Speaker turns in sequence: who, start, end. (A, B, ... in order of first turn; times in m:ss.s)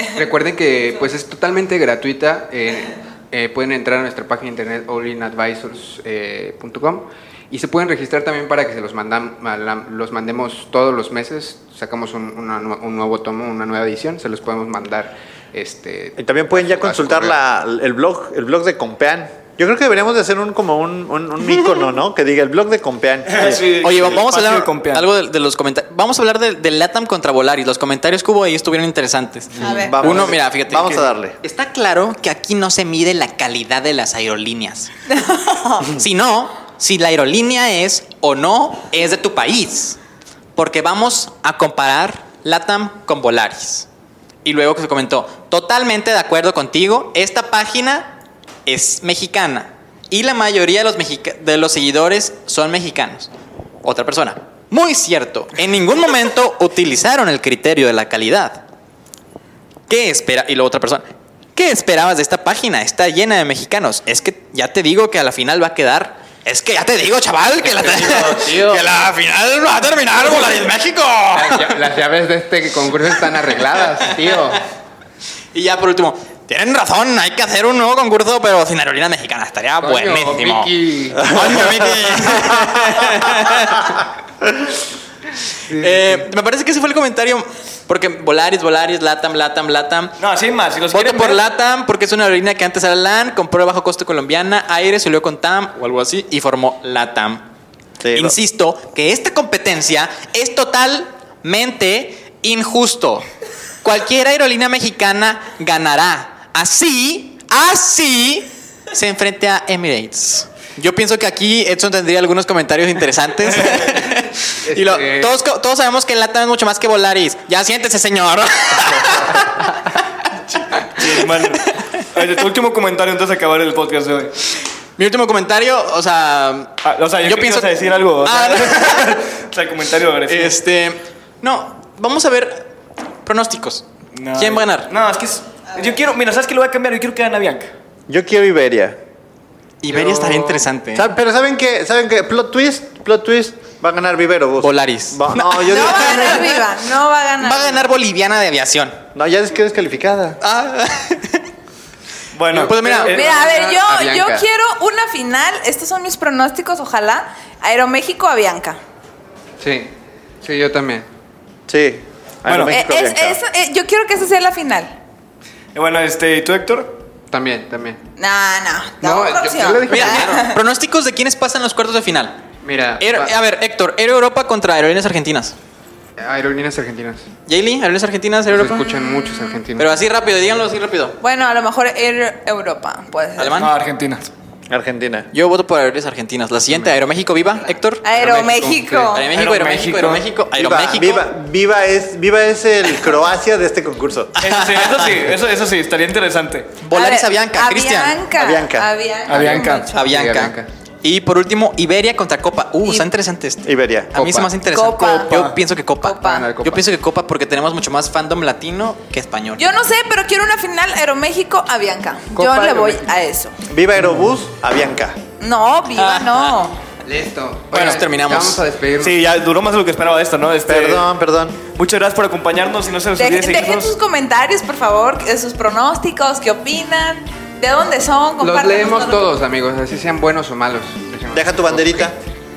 0:00.1-0:17.4 A
0:16.2-0:23.9 B
0:23.2-0:25.1 C
0:23.8-0:34.9 D
0:29.6-0:29.8 A
0:29.6-0:30.0 E
0:29.7-0:31.4 B
0:35.2-0:35.8 E
0:35.9-0:40.0 D
0:40.6-0:43.9 D
0:44.4-0:53.3 D
0:53.8-0:58.6 D
0:59.9-1:11.9 D
1:07.6-1:08.9 A
1:11.3-1:14.6 A
1:14.0-1:14.5 D
1:15.5-1:24.0 D
1:19.8-1:21.7 A
1:25.7-1:26.2 A
1:25.7-1:30.2 D
1:30.2-1:31.4 C
1:30.9-1:37.5 D
1:38.0-1:38.3 B
1:38.1-1:43.2 D
1:43.8-1:59.8 D
1:54.6-1:55.3 A
2:00.6-2:04.3 C
2:01.5-2:01.8 D
2:05.0-2:09.1 D
2:06.8-2:10.6 C
2:10.3-2:12.7 D
2:13.2-2:14.9 D
2:14.1-2:17.7 C
2:18.1-2:19.0 B
2:19.8-2:21.1 D
2:19.9-2:26.6 B
2:24.6-2:26.7 D
2:25.7-2:27.8 E
2:27.4-2:29.0 D
2:29.1-2:30.4 B
2:30.4-2:31.4 D
2:32.3-2:33.4 C
2:32.5-2:33.2 D
2:33.1-2:34.5 A
2:33.1-2:38.8 E
2:39.6-2:39.9 A
2:40.4-2:41.0 A
2:41.7-2:43.4 B
2:42.4-2:42.8 C
2:42.6-2:44.9 E
2:45.7-2:47.0 C
2:47.3-2:48.0 A
2:48.2-2:50.6 E
2:49.0-2:50.4 A
2:49.9-2:52.4 D
2:52.6-2:53.3 A
2:53.0-2:55.5 D
2:56.2-2:57.2 A
2:57.5-2:58.8 D
2:58.5-3:00.0 A
2:58.7-2:59.6 E
2:59.8-3:01.2 D
3:01.2-3:03.6 E
3:03.4-3:03.7 D
3:03.5-3:04.3 C
3:04.7-3:05.3 B
3:05.3-3:08.0 D
3:06.7-3:07.0 A
3:08.0-3:09.2 E
3:08.1-3:09.2 A
3:09.1-3:11.3 D
3:09.3-3:10.2 C
3:10.5-3:14.3 B
3:14.4-3:16.9 C
3:14.5-3:15.1 D
3:16.8-3:18.2 D
3:16.9-3:20.0 E
3:18.3-3:18.9 B
3:19.3-3:19.9 C
3:19.3-3:20.7 A
3:19.9-3:29.8 D
3:22.8-3:23.1 E
3:23.6-3:24.2 B
3:24.2-3:24.5 A
3:24.6-3:25.4 E
3:25.2-3:25.6 C
3:26.0-3:26.5 E
3:26.2-3:26.8 A
3:29.6-3:33.5 E
3:32.3-3:33.1 A
3:33.7-3:35.2 B
3:34.0-3:34.2 A
3:35.4-3:36.8 E
3:36.0-3:36.6 D
3:37.0-3:39.2 A
3:37.7-3:38.6 D
3:39.0-3:41.0 C
3:40.6-3:41.6 B
3:41.7-3:43.9 C
3:43.1-3:49.3 E
3:48.4-3:52.1 A
3:51.3-3:52.2 B